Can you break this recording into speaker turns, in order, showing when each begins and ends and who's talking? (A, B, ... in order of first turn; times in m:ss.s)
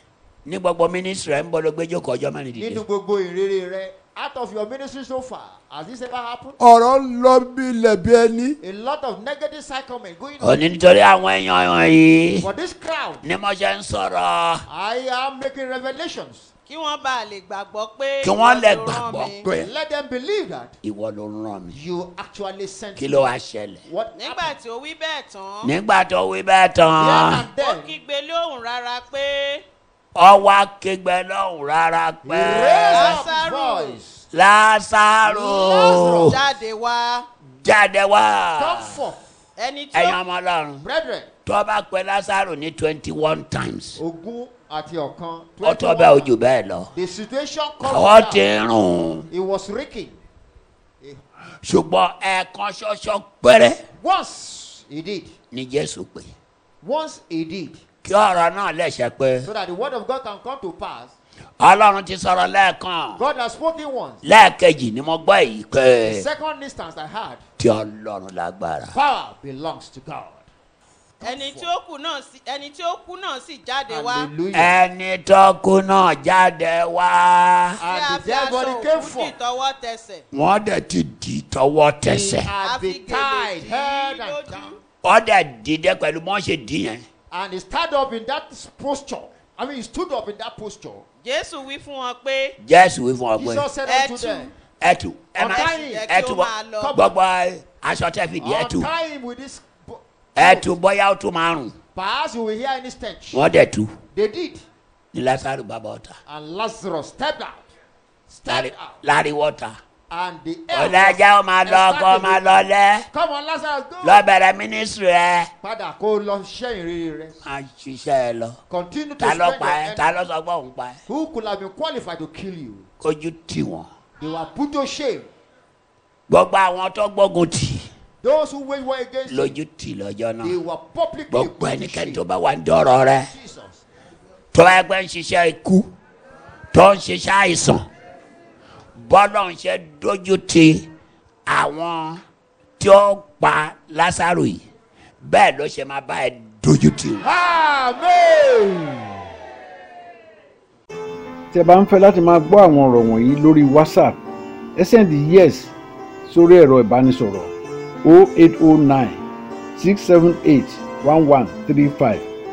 0:00.4-0:02.8 A
0:02.6-0:06.6 B
0:06.6-0:08.6 C
0:08.6-0:10.6 B
0:10.4-0:12.5 A
0:12.4-0:13.3 B
0:13.2-0:14.7 A
0:14.7-0:16.5 B
0:16.7-0:19.5 D
0:18.2-0:19.7 A
0:19.5-0:20.8 B
0:20.8-0:21.8 A
0:21.7-0:23.3 B
0:23.0-0:23.8 A
0:23.8-0:24.6 B
0:24.1-0:25.7 D
0:25.6-0:27.5 A
0:27.0-0:28.0 B
0:27.1-0:29.6 D
0:30.2-0:33.3 A
0:32.2-0:34.3 B
0:32.9-0:34.0 D
0:34.3-0:36.4 A
0:35.2-0:36.4 B
0:36.3-0:37.3 D
0:37.6-0:39.0 A
0:38.6-0:39.3 B
0:39.6-0:40.2 D
0:39.9-0:40.9 A
0:40.8-0:41.3 B
0:41.4-0:44.0 A
0:44.0-0:46.4 B
0:45.6-0:46.9 A
0:46.9-0:48.5 B
0:47.8-0:49.3 A
0:49.3-0:50.2 B
0:51.6-0:53.8 A
0:54.0-0:55.4 B
0:55.5-0:56.3 A
0:56.8-0:57.8 B
0:58.0-0:59.5 A
0:59.4-1:01.2 B
1:01.6-1:03.2 A
1:03.2-1:04.2 B
1:04.2-1:06.3 A
1:06.0-1:07.4 B
1:07.6-1:09.0 A
1:08.9-1:10.4 B
1:11.2-1:11.7 B
1:11.2-1:14.4 D
1:13.9-1:14.8 B
1:14.5-1:17.8 A
1:17.8-1:19.4 B
1:17.9-1:20.2 D
1:20.3-1:22.6 A
1:22.0-1:24.8 B
1:22.6-1:24.8 D
1:25.0-1:27.1 A
1:27.3-1:31.0 B
1:31.2-1:32.6 D
1:32.6-1:33.7 A
1:33.4-1:34.6 B
1:33.8-1:34.5 D
1:34.6-1:38.9 A
1:35.4-1:36.1 B
1:35.5-1:37.0 D
1:36.7-1:37.1 B
1:38.4-1:40.7 B
1:40.4-1:41.8 A
1:41.9-1:43.5 B
1:43.3-1:44.0 A
1:44.1-1:44.6 B
1:45.1-1:46.2 A
1:46.3-1:47.7 B
1:48.3-1:49.0 B
1:48.5-1:49.8 A
1:50.1-1:54.2 B
1:50.7-1:53.1 A
1:54.0-1:55.5 A
1:55.6-1:57.4 B
1:57.4-1:58.6 A
1:58.7-2:00.1 B
1:59.2-2:01.0 A
2:01.1-2:02.9 B
2:03.0-2:03.9 A
2:04.2-2:05.3 B
2:06.3-2:07.9 A
2:08.2-2:09.6 B
2:09.3-2:10.6 A
2:10.4-2:12.2 B
2:11.3-2:13.3 A
2:13.3-2:13.8 B
2:14.5-2:15.7 A
2:16.7-2:17.8 A
2:19.0-2:20.9 A
2:21.5-2:22.2 A
2:22.8-2:24.6 A
2:25.2-2:27.2 A
2:27.2-2:29.2 B
2:31.5-2:34.2 E
2:34.8-2:35.7 E
2:36.3-2:37.5 E
2:38.0-2:39.2 E
2:39.8-2:42.3 E